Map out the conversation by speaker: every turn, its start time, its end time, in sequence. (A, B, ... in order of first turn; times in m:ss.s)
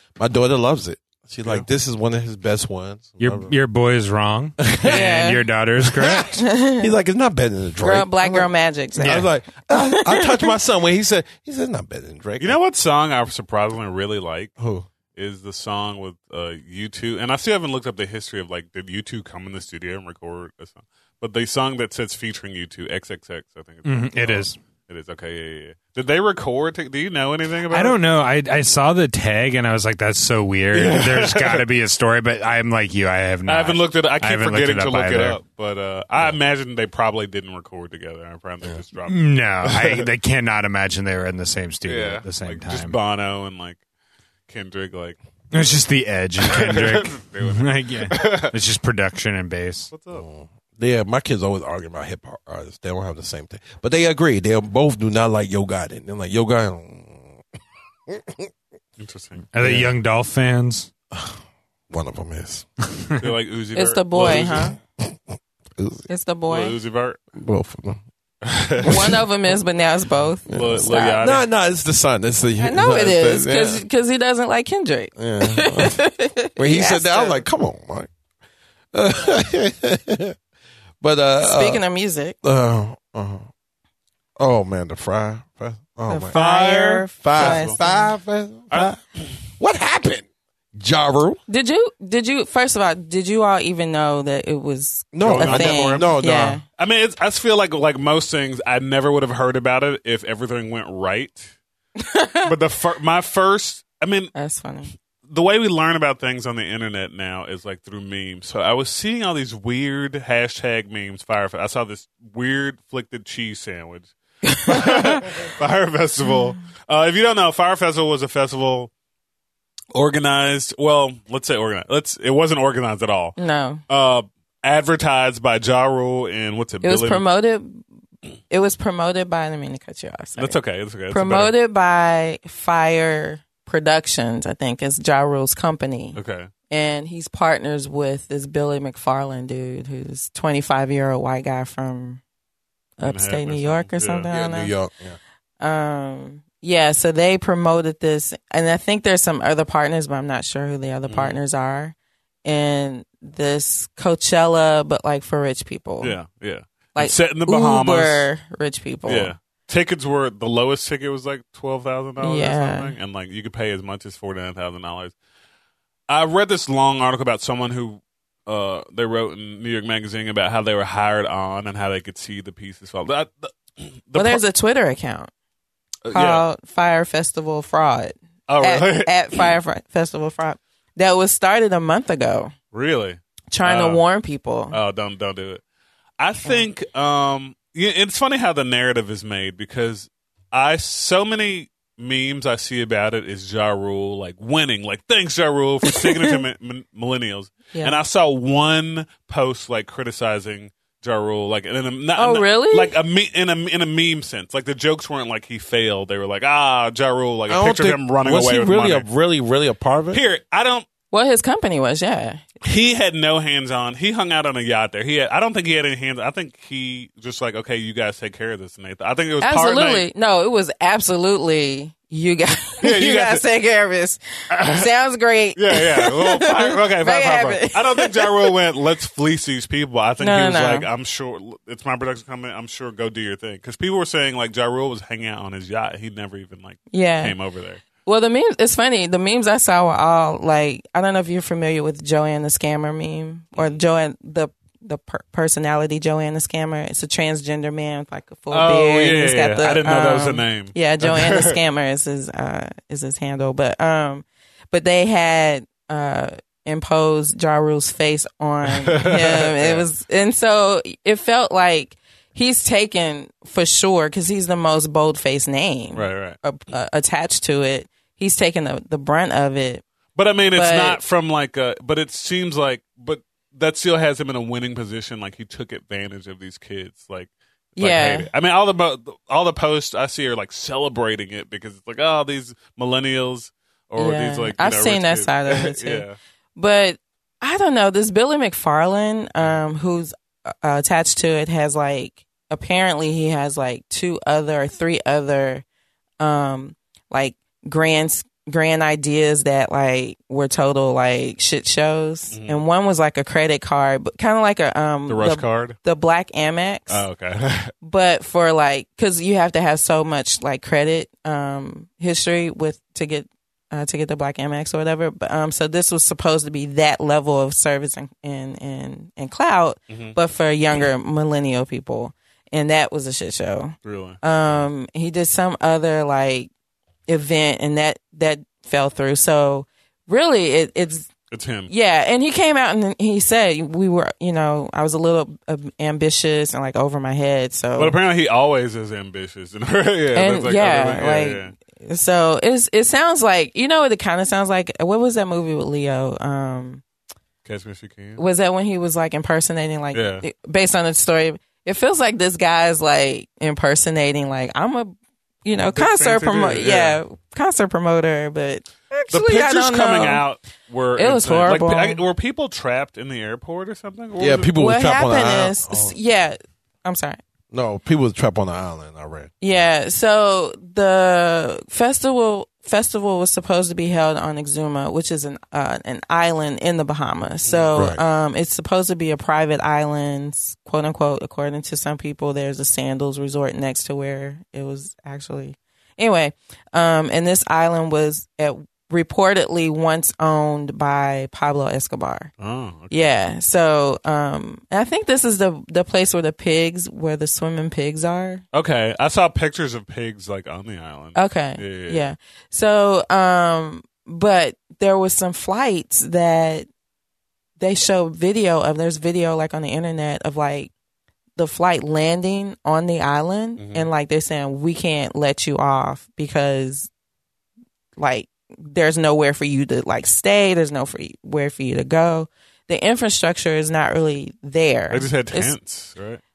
0:00.2-0:03.5 A
0:03.2-0:06.4 B
0:04.6-0:05.0 A
0:04.8-0:05.4 C
0:04.9-0:05.3 D
0:05.8-0:12.6 A
0:06.4-0:06.9 C
0:07.8-0:10.5 C
0:12.4-0:14.5 D
0:14.6-0:14.9 A
0:15.2-0:28.0 D
0:23.8-0:24.6 B
0:27.7-0:35.4 B
0:30.7-0:31.6 D
0:33.5-0:40.1 D
0:39.0-0:43.0 B
0:41.9-0:43.8 D
0:44.5-0:45.2 D
0:45.5-0:49.9 B
0:46.4-0:48.5 D
0:49.9-0:50.3 D
0:50.1-0:57.4 A
0:58.1-0:58.5 A
0:59.0-0:59.5 D
0:59.5-1:00.9 B
0:59.6-0:59.9 A
1:01.1-1:01.4 A
1:01.9-1:02.7 A
1:03.2-1:04.7 D
1:03.8-1:04.8 C
1:04.2-1:04.5 A
1:05.8-1:06.1 A
1:06.1-1:06.8 C
1:06.5-1:07.2 D
1:07.3-1:08.0 A
1:08.4-1:09.2 D
1:08.8-1:11.2 C
1:08.8-1:09.2 A
1:10.5-1:13.8 A
1:10.5-1:11.4 D
1:12.6-1:17.4 C
1:15.2-1:16.0 A
1:16.6-1:18.1 A
1:18.9-1:20.4 A
1:21.0-1:21.8 A
1:21.4-1:22.4 C
1:22.4-1:23.5 A
1:24.4-1:26.4 A
1:26.1-1:28.1 C
1:26.3-1:27.8 D
1:27.2-1:29.0 A
1:29.6-1:31.4 A
1:31.5-1:36.6 C
1:35.1-1:36.6 A
1:35.2-1:36.2 D
1:36.8-1:41.6 D
1:42.0-1:42.5 C
1:42.4-1:44.3 D
1:44.4-1:44.9 C
1:45.3-1:58.9 D
1:54.5-1:55.3 C
1:59.9-2:07.3 D
2:03.4-2:03.8 C
2:06.8-2:07.8 C
2:08.5-2:10.6 C
2:10.4-2:11.5 D
2:11.1-2:16.2 C
2:16.2-2:16.5 D
2:16.7-2:22.2 C
2:23.0-2:24.7 C
2:23.0-2:24.3 D
2:24.3-2:25.2 A
2:25.6-2:36.2 C
2:31.1-2:31.4 D
2:36.0-2:38.3 D
2:37.0-2:39.3 C
2:39.1-2:45.1 D
2:42.2-2:42.9 C
2:46.1-2:54.4 D
2:54.2-2:55.3 C
2:56.0-2:56.5 D
2:56.1-3:02.5 C
2:58.5-2:59.5 D
3:02.7-3:04.0 D
3:03.5-3:04.8 C
3:04.7-3:05.6 D
3:06.2-3:29.1 D
3:15.9-3:16.4 C
3:17.7-3:18.0 C
3:22.2-3:23.0 C
3:27.5-3:30.2 A
3:30.1-3:30.8 D
3:31.1-3:32.4 C
3:32.6-3:40.1 D
3:39.4-3:48.5 C
3:42.8-3:43.4 D
3:44.5-3:44.9 D
3:45.6-3:57.8 D
3:50.2-3:50.9 C
3:56.9-3:57.4 C
3:58.0-4:29.8 C
4:08.5-4:11.6 D
4:18.7-4:19.8 D
4:25.9-4:26.4 D
4:30.2-4:46.2 D
4:30.5-4:31.0 C
4:37.8-4:38.3 C
4:44.0-4:46.0 C
4:46.6-4:55.6 C
4:56.2-5:07.0 C
5:02.3-5:02.6 D
5:05.1-5:05.8 D
5:06.9-5:07.7 D
5:07.8-5:26.5 C
5:19.9-5:20.2 D
5:23.8-5:24.2 D
5:27.1-5:31.1 C
5:31.3-5:31.7 D
5:31.7-5:38.0 C
5:37.8-5:41.5 D
5:40.2-5:46.8 C
5:47.4-5:48.2 D
5:48.2-6:00.2 C
5:49.9-5:50.2 D
5:55.7-5:57.0 D
5:59.1-6:04.5 D
6:01.0-6:02.0 C
6:04.2-6:06.0 A
6:04.6-6:07.2 C
6:07.5-6:09.3 A
6:09.4-6:32.3 C
6:17.4-6:17.7 D
6:32.4-6:33.1 D
6:32.9-6:38.4 C
6:38.5-6:42.1 D
6:41.2-6:46.7 C
6:47.6-6:50.7 C
6:51.4-6:56.9 C
6:53.6-6:53.9 D
6:58.0-7:05.6 C
7:04.9-7:06.2 D